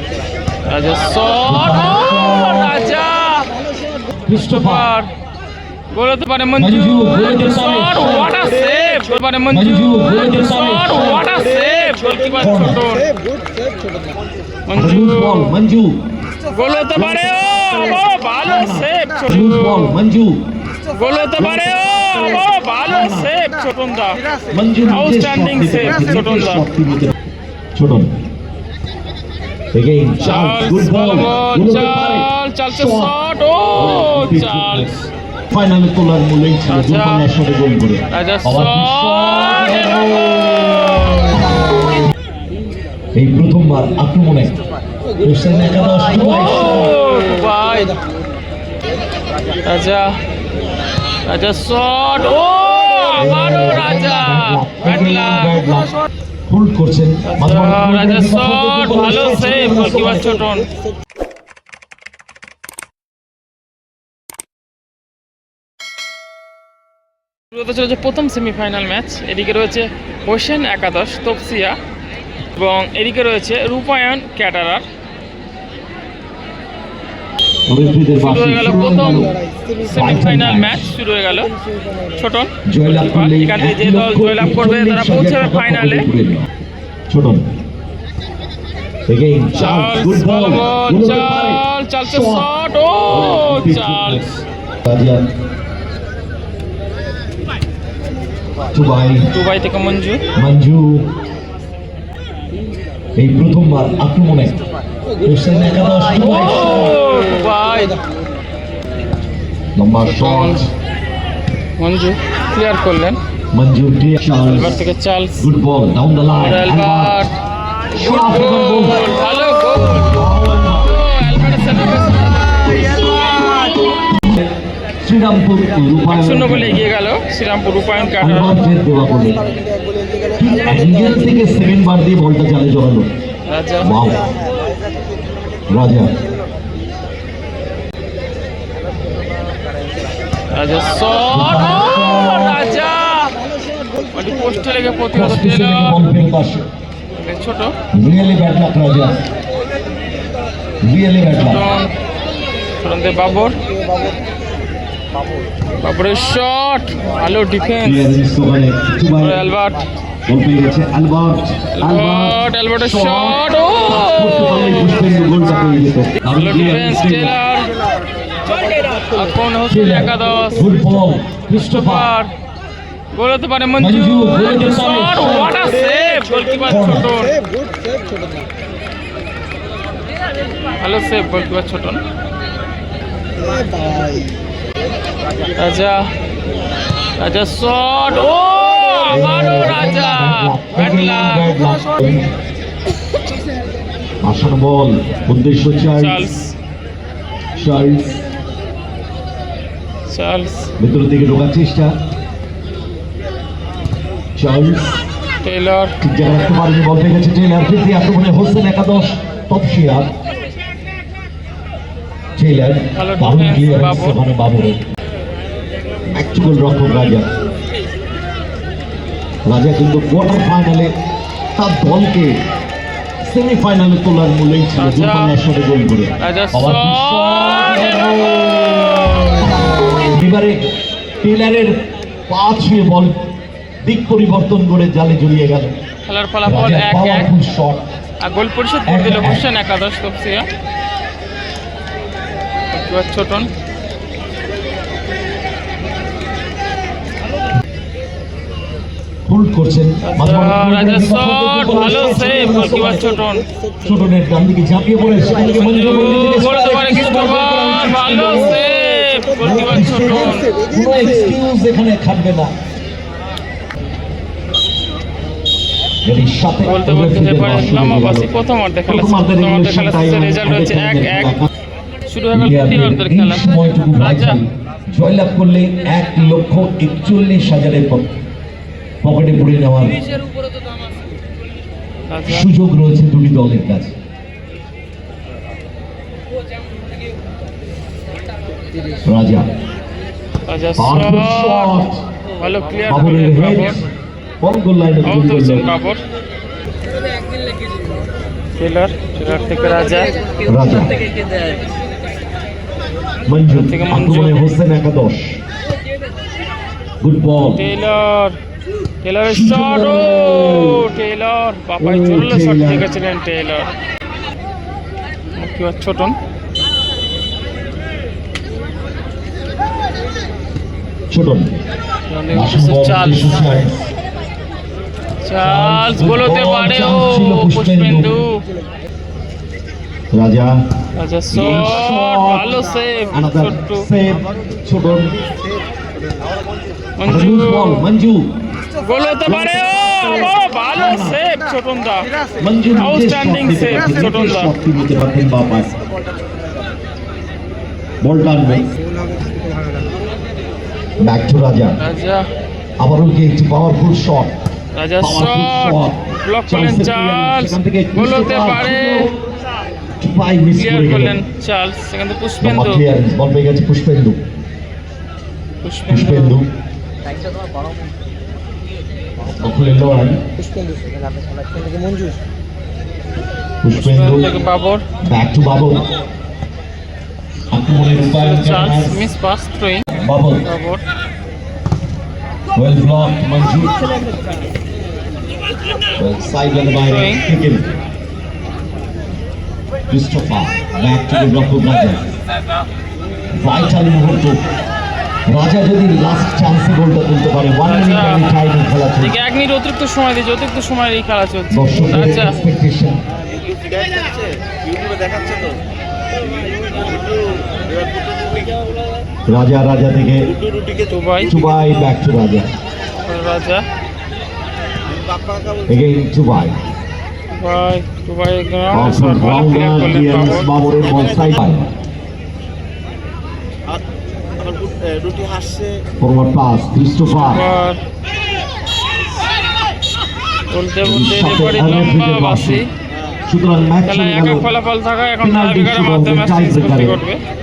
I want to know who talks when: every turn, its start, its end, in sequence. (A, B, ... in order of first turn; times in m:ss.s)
0:00.6-0:03.5 A
0:01.4-0:02.8 B
0:03.5-0:04.1 C
0:04.2-0:04.9 B
0:04.4-0:05.1 A
0:05.9-0:13.1 A
0:06.6-0:08.5 B
0:09.5-0:11.3 B
0:12.3-0:12.9 B
0:13.1-0:14.2 C
0:14.6-0:15.5 A
0:14.7-0:16.0 B
0:16.4-0:20.0 A
0:16.9-0:20.4 B
0:20.8-0:24.2 A
0:21.4-0:23.3 B
0:24.5-0:27.1 B
0:24.9-0:26.6 A
0:27.7-0:28.1 B
0:29.7-0:33.2 B
0:30.2-0:35.1 A
0:33.7-0:34.9 B
0:35.5-0:41.6 B
0:36.7-0:37.3 A
0:38.1-0:41.6 A
0:43.1-0:44.6 B
0:45.2-0:46.9 B
0:46.1-0:48.0 A
0:49.6-0:50.2 A
0:51.2-0:55.8 A
0:53.1-0:55.9 B
0:56.5-1:00.5 B
0:57.2-1:00.7 A
1:07.5-1:11.8 A
1:12.5-1:14.8 A
1:17.7-1:21.0 B
1:18.1-1:21.5 A
1:19.3-1:19.8 C
1:22.1-1:26.1 A
1:22.7-1:26.5 B
1:27.1-1:27.5 B
1:29.1-1:32.5 B
1:29.5-1:34.4 A
1:33.1-1:34.3 B
1:34.8-1:35.3 B
1:38.7-1:39.3 B
1:39.3-1:40.2 A
1:40.3-1:41.1 B
1:43.2-1:44.6 B
1:45.2-1:47.0 B
1:46.1-1:48.0 A
1:49.7-1:50.7 B
1:50.0-1:50.6 A
1:51.8-1:53.2 A
1:53.5-1:54.8 B
1:54.4-1:55.5 A
1:55.4-1:57.3 B
1:56.3-2:00.2 A
1:57.9-1:59.1 B
1:59.9-2:01.0 B
2:00.8-2:04.2 A
2:04.1-2:04.5 B
2:05.0-2:06.9 B
2:06.1-2:08.6 A
2:08.2-2:09.5 B
2:09.8-2:10.4 C
2:10.4-2:13.1 B
2:13.5-2:13.9 A
2:13.8-2:14.4 B
2:15.7-2:16.2 B
2:20.5-2:23.4 A
2:21.3-2:22.8 B
2:23.6-2:24.1 C
2:24.0-2:26.1 A
2:25.1-2:26.7 B
2:27.1-2:27.8 A
2:27.9-2:29.2 B
2:30.8-2:31.6 B
2:31.3-2:31.9 A
2:32.8-2:33.6 A
2:33.7-2:34.2 C
2:35.8-2:38.1 A
2:37.8-2:39.4 B
2:39.2-2:39.9 A
2:40.3-2:47.4 B
2:41.7-2:45.1 A
2:46.3-2:47.7 A
2:48.6-2:50.8 A
2:49.7-2:52.1 B
2:51.5-2:52.3 A
2:53.1-2:57.4 A
2:53.8-2:55.7 B
2:56.6-2:57.2 B
2:57.4-2:58.5 C
3:00.8-3:02.0 A
3:03.5-3:04.3 C
3:05.6-3:06.1 A
3:07.2-3:11.5 A
3:09.0-3:12.2 B
3:14.2-3:16.3 B
3:16.0-3:16.5 A
3:17.6-3:18.2 B
3:20.1-3:20.7 A
3:20.8-3:21.9 B
3:24.4-3:25.0 B
3:25.4-3:26.0 A
3:26.0-3:30.1 B
3:32.4-3:34.8 B
3:32.9-3:34.2 A
3:36.1-3:37.3 B
3:39.4-3:40.9 B
3:41.5-3:42.3 B
3:43.2-3:50.6 B
3:44.7-3:45.3 A
3:46.2-3:49.6 A
3:51.2-3:53.2 B
3:53.8-3:55.7 B
3:56.0-3:57.3 A
3:56.4-3:57.8 B
3:58.2-4:00.5 A
3:58.9-3:59.4 B
4:02.7-4:03.5 A
4:09.3-4:13.2 B
4:10.0-4:13.5 A
4:13.8-4:18.6 B
4:15.3-4:20.5 A
4:19.0-4:19.7 C
4:19.4-4:22.5 B
4:20.4-4:21.3 C
4:26.0-4:28.3 B
4:26.6-4:31.4 A
4:28.9-4:31.5 B
4:32.0-4:34.4 A
4:32.3-4:38.1 B
4:39.0-4:40.0 B
4:42.1-4:42.5 A
4:42.2-4:43.9 B
4:49.0-4:49.5 B
4:50.4-4:51.8 A
4:50.8-4:52.0 B
4:52.4-4:53.8 A
4:52.9-4:53.8 B
4:54.4-4:55.8 B
4:55.0-4:56.0 A
4:58.6-5:00.1 A
5:00.4-5:01.0 B
5:03.2-5:05.4 B
5:03.5-5:04.5 A
5:07.0-5:07.7 B
5:07.5-5:08.4 A
5:09.0-5:13.7 A
5:09.2-5:10.9 B
5:11.8-5:12.9 B
5:15.4-5:16.2 A
5:21.1-5:21.5 B
5:22.1-5:23.5 A
5:22.3-5:23.9 B
5:25.2-5:28.4 A
5:25.4-5:28.2 B
5:30.1-5:30.5 B
5:31.0-5:33.9 A
5:31.3-5:32.6 B
5:33.1-5:35.2 B
5:37.0-5:37.9 A
5:37.0-5:38.3 B
5:38.7-5:42.1 A
5:39.2-5:41.2 B
5:42.4-5:45.8 B
5:42.7-5:44.5 A
5:48.0-5:48.7 B
5:51.0-5:51.8 B
5:51.8-5:52.3 A
5:52.8-5:54.3 B
5:54.7-5:59.1 A
5:55.0-5:59.1 B
6:00.0-6:01.2 B
6:00.5-6:02.8 A
6:02.4-6:04.2 B
6:05.6-6:06.4 A
6:05.9-6:06.5 B
6:09.2-6:10.2 B
6:10.5-6:12.1 C
6:13.6-6:14.3 B
6:13.8-6:14.8 A
6:15.0-6:15.9 B
6:17.5-6:19.0 B
6:18.0-6:20.8 A
6:19.9-6:20.5 B
6:22.5-6:23.8 B
6:26.0-6:27.7 B
6:26.8-6:27.2 A
6:29.9-6:32.0 B
6:33.3-6:34.4 B
6:35.3-6:39.2 B
6:37.6-6:38.3 A
6:39.0-6:42.4 A
6:41.5-6:43.0 B
6:43.5-6:45.6 C
6:46.9-6:47.3 C
6:48.1-6:48.4 C
6:49.2-6:50.3 B
6:50.9-6:51.3 A
6:51.2-6:52.5 B
6:53.0-6:53.6 A
6:55.0-6:55.6 C
6:55.6-6:56.6 B
6:57.3-7:00.5 A
6:58.7-7:01.7 B
7:04.4-7:05.8 C
7:06.0-7:07.5 B
7:07.1-7:07.8 A
7:10.5-7:12.7 A
7:10.8-7:12.6 B
7:13.3-7:14.4 B
7:13.8-7:17.2 A
7:15.2-7:17.0 B